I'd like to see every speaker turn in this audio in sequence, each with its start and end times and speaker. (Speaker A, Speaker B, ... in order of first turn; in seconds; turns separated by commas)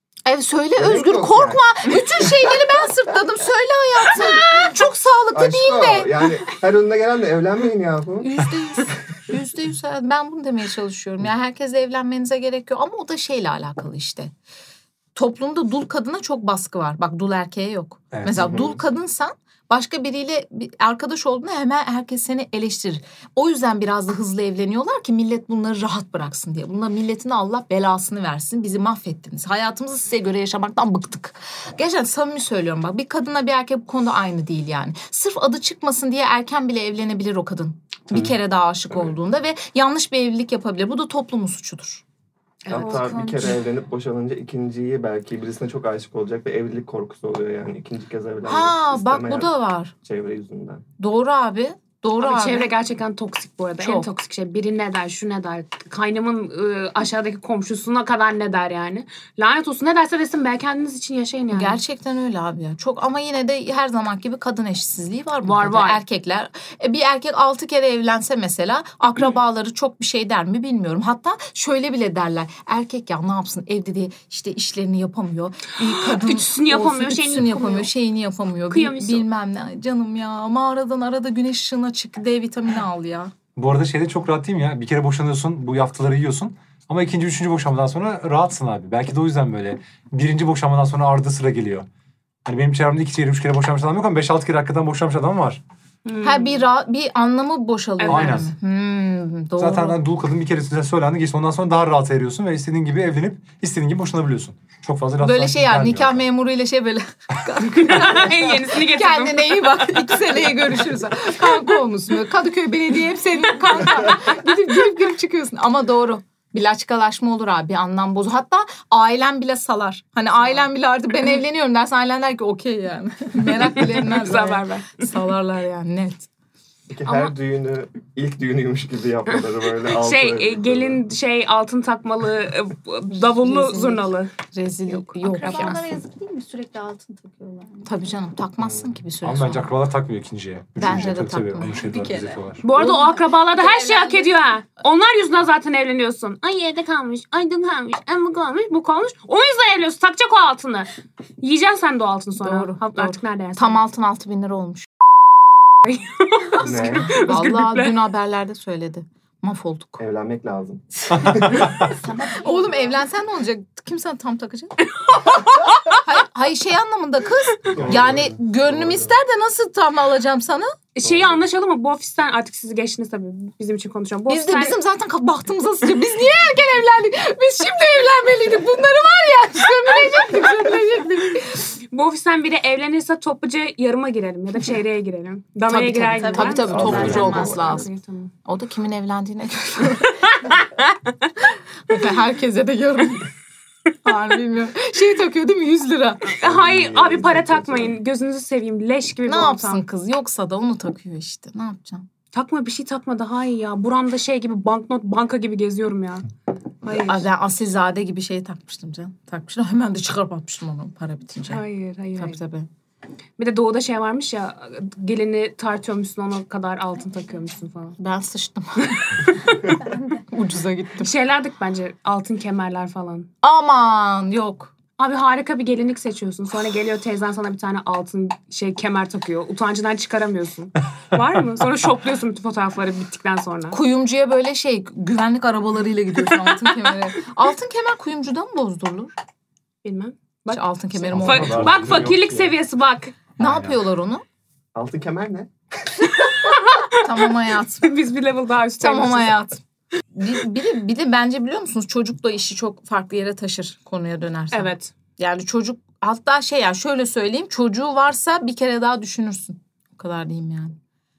Speaker A: 0.2-6.2, Speaker B: 0.8-1.6, Speaker B: 5.3-8.4, Speaker A: 8.2-14.3, Speaker A: 15.1-42.0, Speaker C: 18.1-18.5, Speaker B: 18.3-18.8, Speaker D: 42.6-43.2, Speaker B: 42.7-49.5, Speaker A: 42.7-43.6, Speaker A: 48.4-49.9, Speaker B: 50.0-50.8, Speaker A: 51.0-52.7, Speaker D: 52.2-61.8, Speaker A: 53.8-54.1, Speaker A: 61.5-83.3, Speaker D: 65.4-66.0, Speaker D: 76.0-77.9, Speaker D: 78.7-79.2, Speaker C: 83.5-91.9, Speaker C: 92.4-95.6, Speaker D: 96.0-96.7, Speaker A: 96.2-100.0, Speaker D: 98.0-98.4, Speaker C: 98.0-98.5, Speaker C: 99.6-106.2, Speaker A: 105.2-126.3, Speaker D: 107.8-110.2, Speaker D: 123.4-125.1, Speaker B: 126.9-131.0, Speaker D: 129.9-134.3, Speaker A: 133.1-135.8, Speaker D: 134.9-135.7, Speaker E: 135.2-137.9, Speaker A: 137.8-139.7, Speaker B: 138.6-138.9, Speaker C: 139.2-142.6, Speaker A: 140.8-141.8, Speaker E: 141.7-143.0, Speaker D: 142.6-153.8, Speaker E: 143.5-144.3, Speaker A: 152.4-154.9, Speaker D: 155.8-158.0, Speaker B: 156.6-157.2, Speaker A: 156.9-160.0, Speaker B: 160.0-161.9, Speaker E: 161.8-163.0, Speaker A: 162.3-164.8, Speaker D: 165.1-165.9, Speaker A: 165.9-170.7, Speaker B: 167.7-169.1, Speaker D: 170.9-174.8, Speaker B: 171.0-171.4, Speaker A: 174.3-181.7, Speaker D: 181.9-188.3, Speaker A: 185.7-187.9, Speaker B: 186.5-187.8, Speaker A: 188.4-190.3, Speaker A: 191.9-193.3, Speaker A: 194.0-196.3, Speaker D: 196.4-199.8, Speaker B: 196.4-198.0, Speaker A: 199.2-202.1, Speaker D: 202.3-206.3, Speaker D: 206.8-207.2, Speaker A: 206.8-211.6, Speaker D: 211.5-212.4, Speaker A: 212.2-212.7, Speaker D: 213.4-218.0, Speaker A: 218.0-219.2, Speaker D: 218.8-219.8, Speaker A: 220.2-221.1, Speaker D: 221.0-223.3, Speaker A: 223.4-224.7, Speaker D: 225.0-233.8, Speaker A: 233.7-239.1, Speaker D: 239.8-243.1, Speaker A: 240.5-241.7, Speaker B: 241.1-242.5, Speaker C: 241.1-242.1, Speaker A: 243.4-244.2, Speaker C: 243.4-243.8, Speaker B: 244.7-246.2, Speaker D: 246.5-247.1, Speaker A: 247.0-247.9, Speaker D: 247.8-249.4, Speaker A: 248.8-249.6, Speaker A: 250.1-260.8, Speaker D: 254.5-254.9